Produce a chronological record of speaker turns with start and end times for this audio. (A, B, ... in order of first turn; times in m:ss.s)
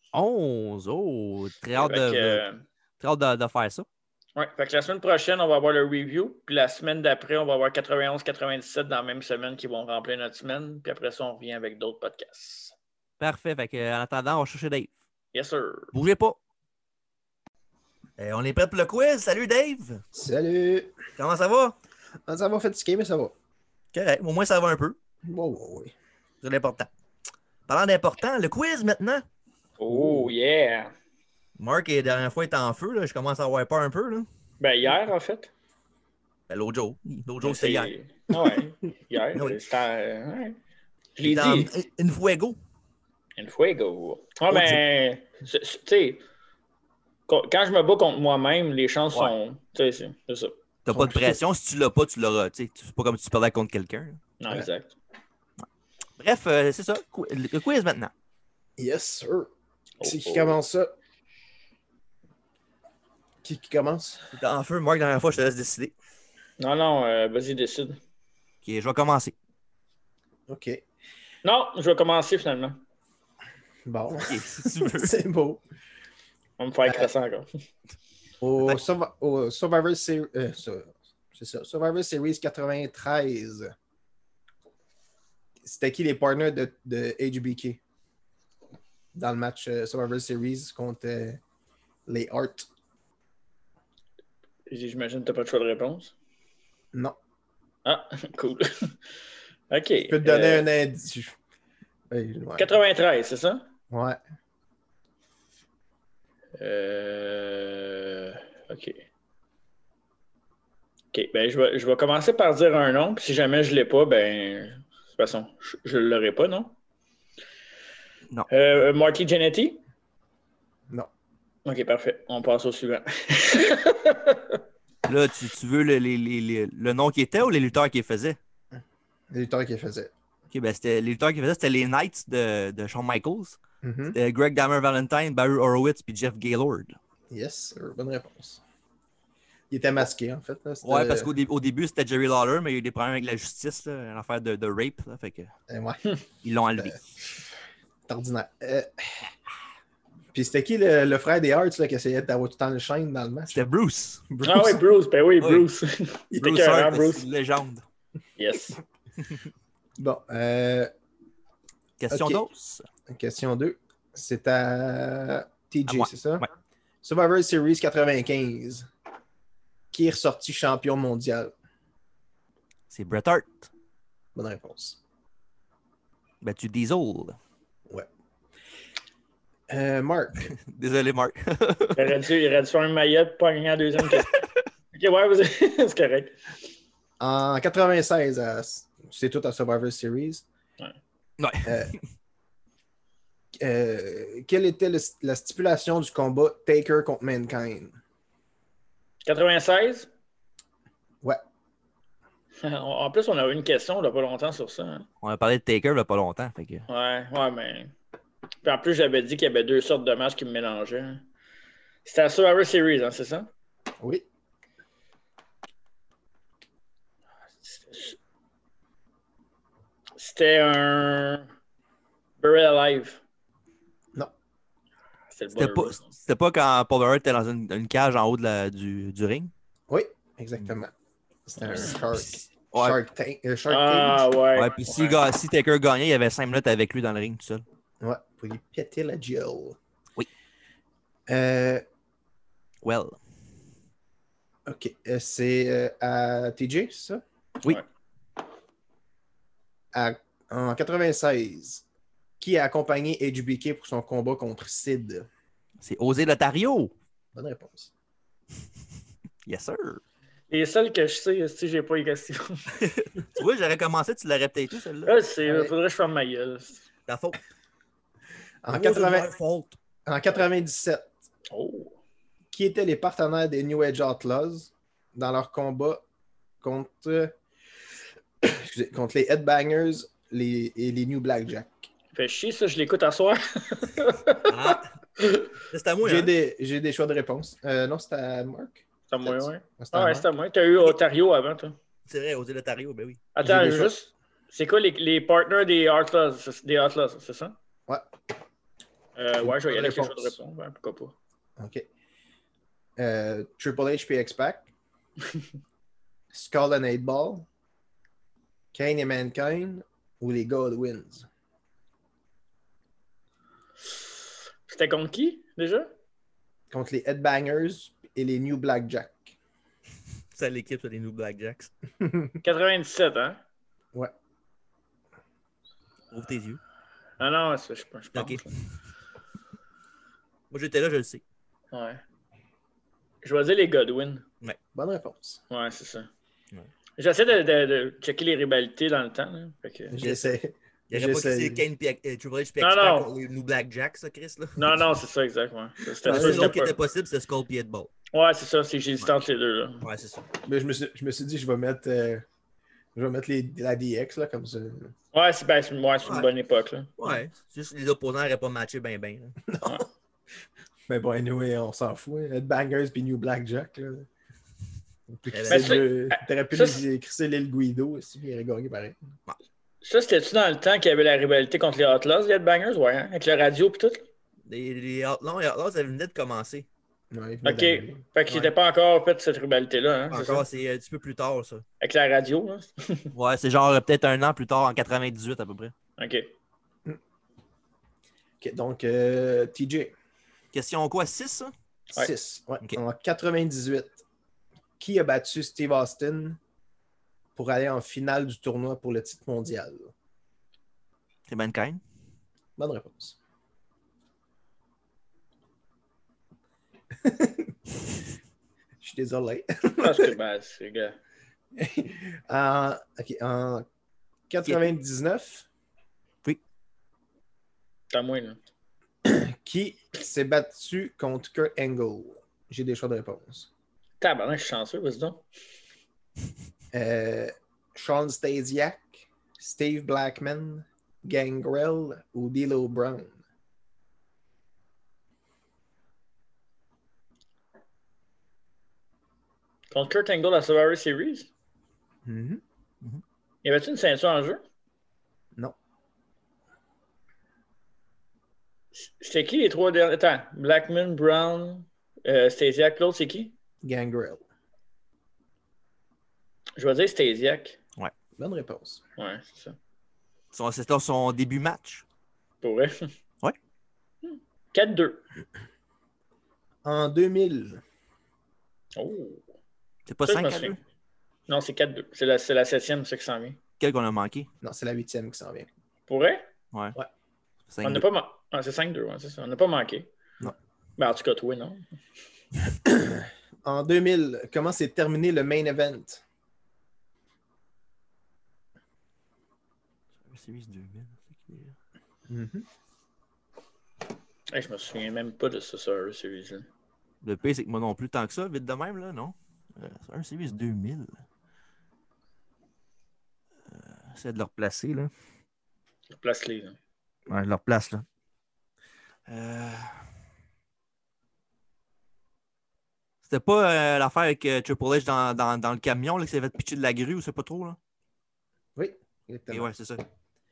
0:00.1-0:02.4 A
0:01.8-0:02.6 B
0:03.0-0:03.8 A
0:04.3-0:12.7 B
0:13.2-0:14.9 A
0:15.3-0:15.9 B
0:15.9-0:16.4 A
0:18.2-0:20.0 A
0:20.1-0:21.0 C
0:21.2-0:21.7 A
0:22.3-0:23.3 C
0:23.9-0:25.0 A
0:25.3-0:25.9 C
0:26.4-0:26.9 A
0:27.7-0:29.2 A
0:29.8-0:30.9 B
0:31.6-0:34.3 A
0:34.6-0:35.5 B
0:36.5-0:37.9 A
0:37.4-0:40.6 B
0:41.2-0:41.7 B
0:41.2-0:42.6 A
0:43.4-0:46.2 B
0:44.5-0:44.8 A
0:47.3-0:50.5 B
0:50.8-0:54.2 A
0:50.9-0:51.4 C
0:54.4-0:54.9 B
0:56.2-0:58.1 A
0:58.8-0:59.5 C
1:00.0-1:00.6 B
1:00.0-1:00.9 C
1:03.4-1:04.3 C
1:04.3-1:05.9 A
1:06.6-1:08.0 B
1:08.6-1:09.3 A
1:10.5-1:10.8 C
1:11.4-1:12.8 B
1:13.8-1:15.6 C
1:14.2-1:15.2 A
1:16.6-1:17.5 B
1:18.4-1:23.7 C
1:25.6-1:27.8 C
1:29.1-1:31.4 C
1:32.1-1:32.7 C
1:34.7-1:36.1 B
1:37.8-1:39.0 B
1:39.7-1:40.7 B
1:40.1-1:41.3 C
1:42.1-1:42.7 C
1:42.6-1:43.6 B
1:43.9-1:44.2 C
1:46.6-1:49.0 B
1:51.1-1:56.7 B
1:58.5-1:59.8 B
2:01.6-2:04.6 B
2:05.1-2:08.4 A
2:09.3-2:10.1 C
2:10.5-2:13.6 A
2:13.8-2:14.2 C
2:14.1-2:17.0 A
2:17.3-2:18.6 C
2:19.7-2:21.3 C
2:20.8-2:25.5 A
2:25.7-2:26.2 C
2:26.4-2:27.0 A
2:26.8-2:27.0 C
2:28.1-2:29.3 C
2:30.3-2:33.6 C
2:33.5-2:34.2 A
2:34.3-2:34.8 C
2:34.4-2:37.2 B
2:35.4-2:35.7 A
2:36.3-2:37.8 A
2:38.4-2:38.8 B
2:40.0-2:40.9 C
2:42.0-2:42.8 A
2:42.1-2:42.4 C
2:43.1-2:46.4 C
2:45.9-2:46.5 A
2:47.0-2:48.9 C
2:49.9-2:51.5 C
2:52.9-2:53.7 A
2:54.3-2:55.0 C
2:56.4-2:57.4 A
2:59.7-3:00.5 C
3:00.5-3:02.2 A
3:02.0-3:06.4 B
3:04.1-3:04.5 A
3:07.2-3:10.4 C
3:11.4-3:12.0 A
3:11.6-3:11.9 C
3:13.6-3:18.0 C
3:19.2-3:20.1 B
3:22.6-3:25.1 B
3:25.2-3:26.8 A
3:26.9-3:27.9 B
3:28.6-3:31.2 B
3:32.0-3:33.5 B
3:37.6-3:38.2 B
3:40.2-3:41.5 B
3:42.4-3:43.2 B
3:45.3-3:46.0 B
3:45.5-3:49.5 A
3:49.9-3:50.9 C
3:51.5-3:54.3 C
3:51.7-3:53.0 A
3:51.7-3:52.0 B
3:53.7-3:55.2 B
3:54.6-3:57.6 A
3:58.0-3:59.8 C
4:01.3-4:01.8 C
4:02.8-4:03.2 A
4:04.6-4:07.2 C
4:09.9-4:11.8 C
4:12.4-4:15.3 C
4:15.8-4:16.9 A
4:17.3-4:17.9 C
4:19.4-4:20.0 A
4:20.5-4:22.6 B
4:22.8-4:25.2 A
4:25.0-4:26.8 B
4:25.4-4:25.7 C
4:27.1-4:27.4 A
4:28.6-4:29.3 C
4:28.7-4:29.8 A
4:30.0-4:31.1 C
4:31.5-4:32.0 B
4:32.5-4:36.0 C
4:36.6-4:37.3 C
4:38.4-4:41.9 C
4:42.1-4:45.4 B
4:44.4-4:44.9 A
4:45.7-4:46.3 A
4:46.0-4:50.3 C
4:49.1-4:51.7 B
4:52.0-4:53.2 A
4:53.3-4:57.6 B
4:53.4-4:53.9 C
4:59.2-5:01.1 B
4:59.4-5:00.4 C
5:01.6-5:01.9 C
5:03.0-5:04.7 C
5:06.3-5:07.4 C
5:08.7-5:11.2 C
5:14.7-5:15.9 B
5:16.7-5:19.3 C
5:20.3-5:21.7 A
5:22.0-5:22.4 C
5:22.4-5:23.4 B
5:26.1-5:26.6 A
5:27.2-5:28.5 B
5:28.1-5:28.5 A
5:30.5-5:31.2 A
5:31.7-5:32.0 B
5:33.2-5:34.2 B
5:34.7-5:35.4 C
5:35.5-5:36.1 B
5:37.0-5:40.0 B
5:39.9-5:41.6 C
5:40.0-5:40.4 A
5:40.9-5:44.8 A
5:42.6-5:43.1 B
5:44.6-5:46.7 B
5:46.0-5:47.9 A
5:46.0-5:46.5 C
5:48.1-5:49.8 B
5:49.8-5:50.2 A
5:50.4-5:52.2 C
5:52.9-5:54.9 C
5:55.1-5:56.9 B
5:56.0-5:56.3 A
5:57.0-5:59.4 A
5:59.4-5:59.9 C
6:00.9-6:04.1 C
6:05.1-6:09.0 C
6:05.3-6:05.8 A
6:05.5-6:06.8 B
6:09.8-6:14.0 B
6:14.5-6:16.7 A
6:17.1-6:18.1 C
6:17.4-6:20.4 B
6:20.1-6:21.6 A
6:21.8-6:23.1 B
6:23.1-6:25.7 A
6:26.0-6:26.3 B
6:28.4-6:29.9 C
6:30.5-6:31.5 A
6:31.9-6:34.0 C
6:34.8-6:36.4 C
6:37.4-6:39.9 C
6:41.3-6:41.8 A
6:42.6-6:43.2 C
6:47.0-6:47.5 C
6:48.8-6:50.1 C
6:49.8-6:51.0 B
6:51.6-6:53.6 C
6:54.3-6:55.4 C
6:57.9-6:58.4 B
6:59.0-7:03.5 C
7:04.0-7:05.2 B
7:06.7-7:13.2 C
7:19.7-7:21.3 B
7:22.0-7:22.4 C
7:23.4-7:24.4 B
7:28.7-7:33.3 B
7:33.6-7:34.2 C
7:36.6-7:37.6 B
7:38.2-7:38.8 C
7:39.0-7:39.6 B
7:40.3-7:41.8 A
7:42.4-7:42.9 B
7:44.0-7:45.0 B
7:46.6-7:47.6 C
7:48.7-7:49.2 B
7:49.9-7:50.6 A
7:50.0-7:50.6 B
7:51.3-7:53.4 B
7:53.6-7:54.3 A
7:54.4-7:55.5 C
7:55.9-7:56.2 B
7:57.5-7:57.8 A
7:57.6-7:59.9 B
8:00.8-8:01.8 B
8:02.6-8:06.0 C
8:10.0-8:11.5 A
8:12.1-8:12.4 C
8:14.3-8:16.5 B
8:17.0-8:21.0 A
8:23.5-8:24.9 A
8:25.9-8:26.6 B
8:27.1-8:27.8 A
8:29.1-8:29.8 A
8:33.0-8:37.6 A
8:38.6-8:39.5 C
8:39.3-8:39.8 A